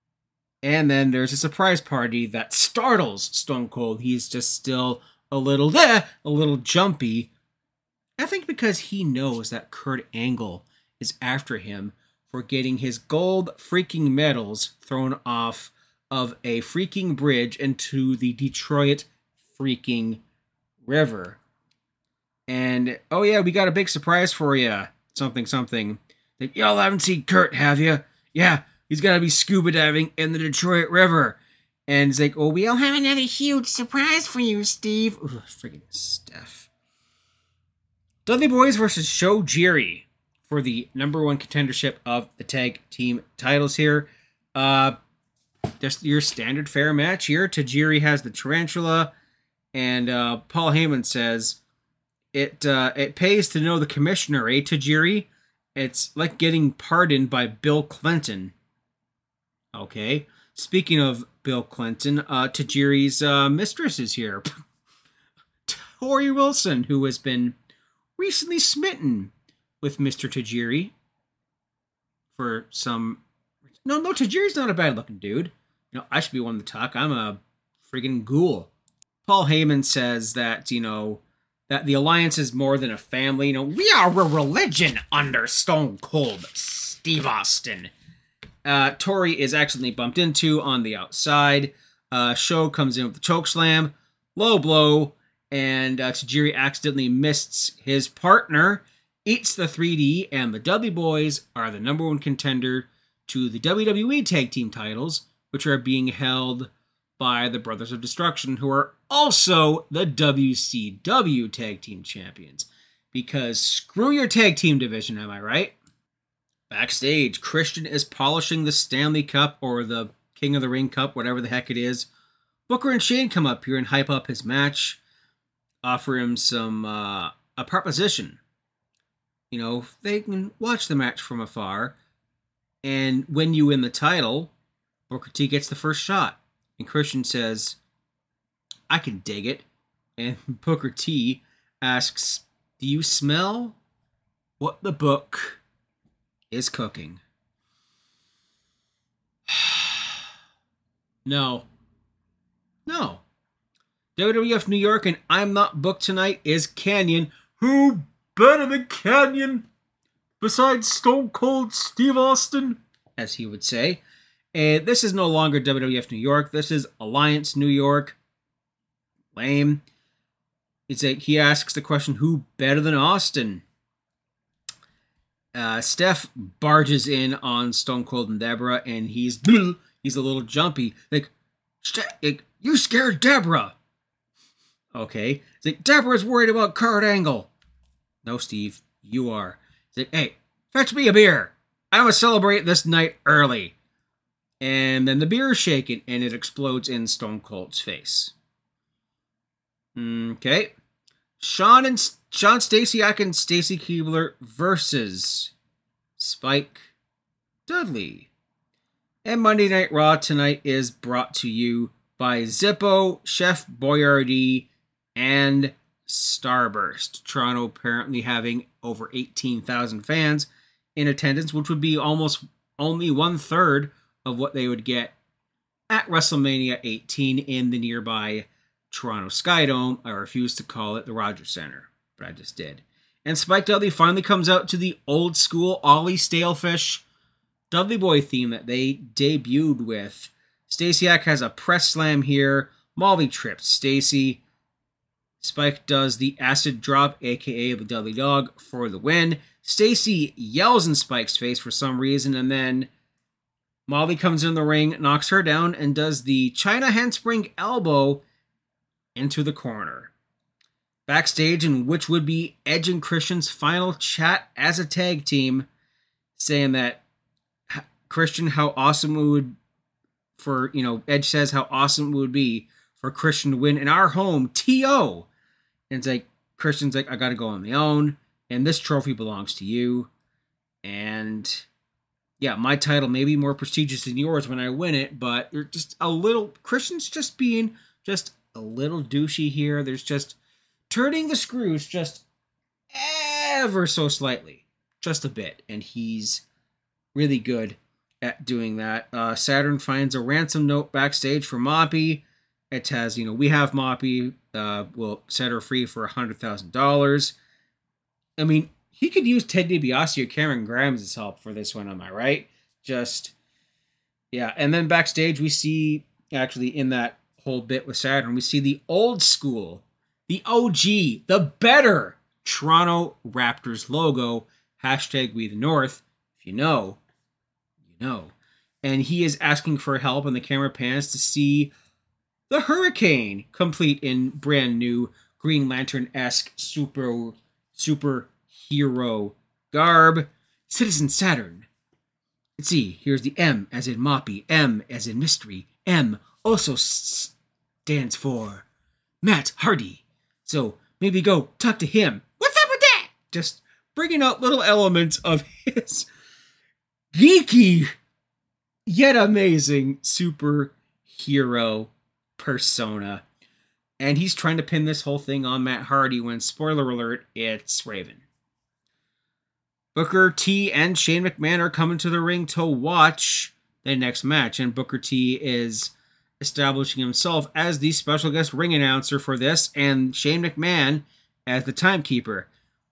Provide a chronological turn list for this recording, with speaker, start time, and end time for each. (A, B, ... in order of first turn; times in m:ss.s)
0:00.6-0:07.3 A
0:08.2-0:20.2 A
0:20.8-0:21.4 A
0:22.5-0:36.7 A
0:38.2-0:45.0 A
0:45.8-0:49.1 A
0:49.7-0:51.6 A
0:52.3-0:58.5 A
0:59.7-1:04.6 A
1:05.6-1:07.6 A
1:08.2-1:10.9 A
1:12.3-1:13.2 A
1:13.8-1:18.7 A
1:19.2-1:27.9 A
1:28.6-1:55.8 A
1:56.7-2:02.1 A
2:02.7-2:05.0 A
2:05.8-2:08.4 A
2:09.5-2:12.0 A
2:12.8-2:14.5 A
2:15.1-2:17.8 A
2:18.9-2:19.6 A
2:20.2-2:23.8 A
2:24.6-2:25.6 A
2:26.5-2:27.2 A
2:29.5-2:30.1 A
2:31.2-2:31.7 A
2:32.8-2:33.2 A
2:34.2-2:39.7 A
2:40.4-2:44.0 A
2:44.5-2:48.2 A
2:49.3-2:49.8 A
2:50.9-2:53.6 A
2:55.5-3:01.3 A
3:01.8-3:03.8 A
3:04.9-3:07.5 A
3:08.2-3:13.7 A
3:14.6-3:18.3 A
3:20.0-3:20.7 A
3:21.4-3:25.5 A
3:26.2-3:26.9 A
3:27.7-3:28.3 A
3:29.2-3:45.1 A
3:45.9-3:57.0 A
3:57.7-4:04.4 A
4:05.4-4:12.9 A
4:13.9-4:18.2 A
4:19.2-4:20.1 A
4:21.1-4:25.7 A
4:26.4-4:27.0 A
4:27.7-4:29.6 A
4:30.4-4:35.3 A
4:35.9-4:40.1 A
4:40.8-4:41.7 A
4:42.4-4:50.4 A
4:50.9-4:52.2 A
4:52.9-4:56.4 A
4:57.1-5:07.4 A
5:08.4-5:13.3 A
5:14.3-5:27.0 A
5:27.9-5:31.7 A
5:32.5-5:41.7 A
5:42.6-5:47.3 A
5:47.8-5:48.6 A
5:49.2-5:56.1 A
5:57.1-5:57.9 A
5:58.8-6:03.2 A
6:04.0-6:08.2 A
6:09.9-6:22.5 A